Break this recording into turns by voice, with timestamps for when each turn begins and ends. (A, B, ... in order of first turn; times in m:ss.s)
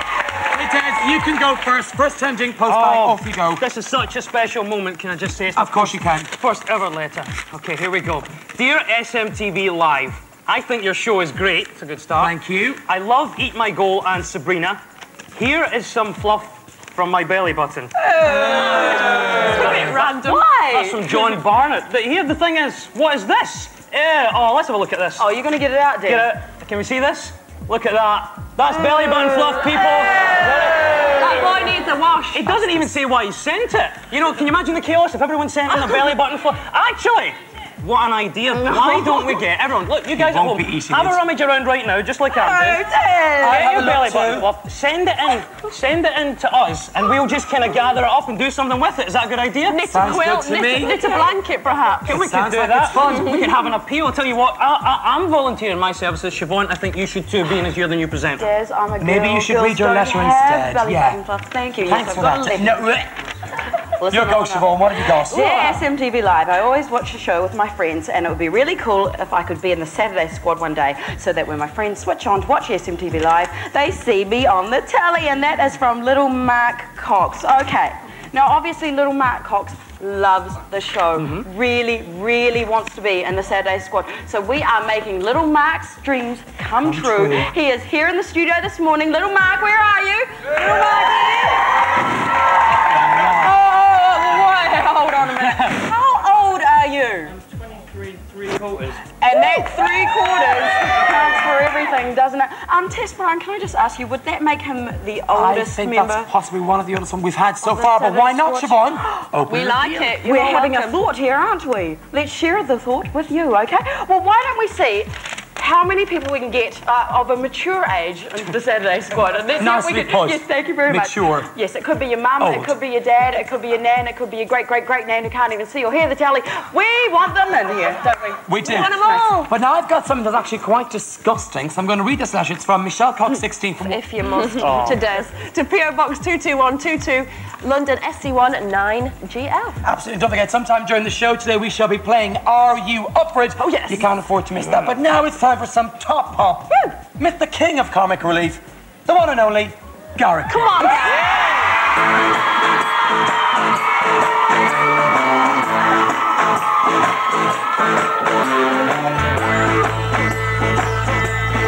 0:00.5-0:03.6 A
0:02.7-0:14.8 B
0:05.6-0:06.3 A
0:12.2-0:12.8 A
0:15.4-0:17.9 B
0:18.2-0:19.0 C
0:18.3-0:20.6 D
0:19.7-0:20.1 B
0:20.0-0:21.1 C
0:20.7-0:25.3 B
0:25.2-0:26.3 C
0:26.1-0:31.7 B
0:31.2-0:32.9 D
0:32.3-0:42.8 B
0:38.5-0:39.4 C
0:40.1-0:41.2 A
0:42.3-0:43.7 C
0:43.4-0:44.5 A
0:43.4-0:50.3 B
0:49.7-0:52.2 D
0:49.9-0:51.3 A
0:52.1-0:53.2 A
0:52.1-0:58.5 B
0:58.4-1:02.8 C
0:59.0-1:01.2 A
1:01.8-1:03.1 A
1:04.0-1:31.7 C
1:04.1-1:05.8 A
1:21.2-1:21.4 A
1:26.8-1:27.5 A
1:33.2-1:33.5 A
1:33.4-1:37.4 C
1:38.6-1:38.9 B
1:39.2-1:46.3 C
1:45.3-1:50.2 A
1:47.6-1:49.0 C
1:49.4-1:51.0 D
1:50.2-2:09.4 C
1:59.6-2:01.5 A
2:02.4-2:02.8 A
2:08.5-2:14.0 A
2:08.6-2:09.5 D
2:13.8-2:19.8 D
2:14.6-2:15.0 B
2:19.8-2:31.0 A
2:23.6-2:24.1 D
2:30.5-2:31.3 D